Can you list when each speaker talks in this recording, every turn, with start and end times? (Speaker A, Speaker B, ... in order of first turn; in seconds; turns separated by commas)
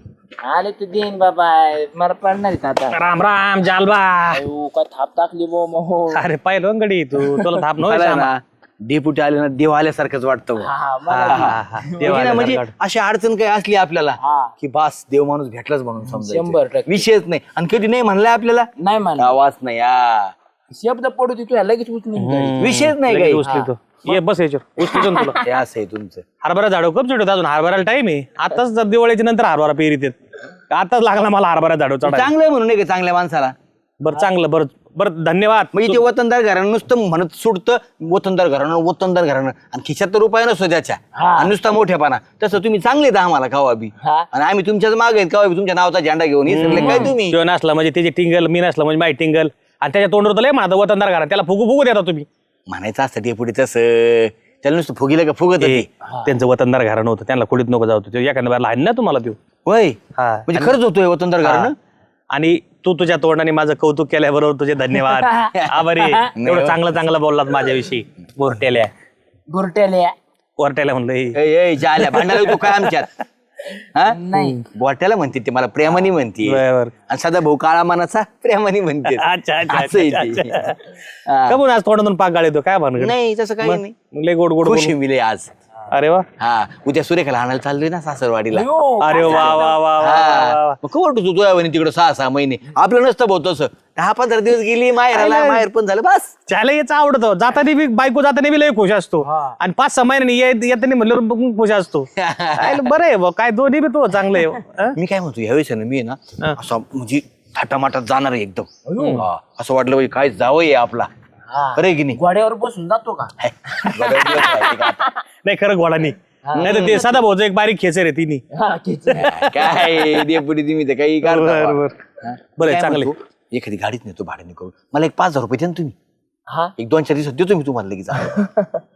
Speaker A: 0.4-3.0, Speaker B: 2.9-4.4, Speaker A: 4.3-6.2, Speaker B: 6.1-8.3, Speaker A: 7.2-7.5, Speaker C: 7.8-10.7, Speaker A: 10.6-12.2, Speaker B: 11.1-12.7, Speaker C: 11.3-20.3, Speaker A: 14.2-14.5, Speaker A: 16.1-17.1, Speaker A: 18.8-19.4, Speaker A: 20.7-22.6, Speaker B: 22.1-25.4, Speaker C: 22.6-23.4, Speaker A: 23.4-24.2, Speaker A: 24.9-25.4, Speaker C: 25.4-26.2, Speaker B: 26.4-30.1, Speaker B: 30.7-32.3, Speaker C: 32.0-33.5, Speaker B: 34.0-36.0, Speaker C: 35.7-47.4, Speaker A: 41.2-41.5, Speaker A: 44.0-44.3, Speaker B: 46.5-52.3, Speaker A: 46.6-47.1, Speaker C: 52.7-55.9, Speaker B: 55.6-59.4, Speaker A: 56.0-56.3, Speaker C: 59.6-61.7, Speaker B: 60.1-60.7, Speaker B: 61.4-61.7, Speaker B: 62.3-68.9, Speaker A: 65.0-66.3, Speaker C: 65.5-65.8, Speaker C: 66.3-66.8, Speaker A: 69.5-70.1, Speaker B: 70.6-71.3, Speaker C: 71.3-73.1, Speaker B: 72.0-72.9, Speaker C: 73.9-80.6, Speaker A: 74.1-74.6, Speaker B: 76.4-76.9, Speaker B: 79.1-80.8, Speaker C: 81.2-81.6, Speaker B: 81.5-84.9, Speaker C: 83.0-83.9, Speaker C: 84.6-85.5, Speaker B: 85.9-86.2, Speaker C: 86.4-88.7, Speaker A: 88.5-89.8, Speaker B: 89.0-90.8, Speaker C: 89.2-96.3, Speaker B: 95.1-95.6, Speaker B: 96.5-105.0, Speaker C: 102.2-102.9, Speaker C: 105.0-111.1, Speaker A: 108.8-109.2, Speaker B: 109.0-109.2, Speaker A: 111.5-113.3, Speaker C: 111.7-112.2, Speaker C: 113.4-115.1, Speaker A: 113.9-115.1, Speaker B: 115.4-118.4, Speaker A: 116.4-117.2, Speaker C: 116.5-117.1, Speaker A: 118.5-120.0, Speaker C: 119.2-121.8, Speaker B: 121.2-121.9, Speaker B: 122.6-123.1, Speaker C: 122.6-125.9, Speaker A: 126.5-126.7, Speaker C: 126.8-128.5, Speaker A: 128.4-128.8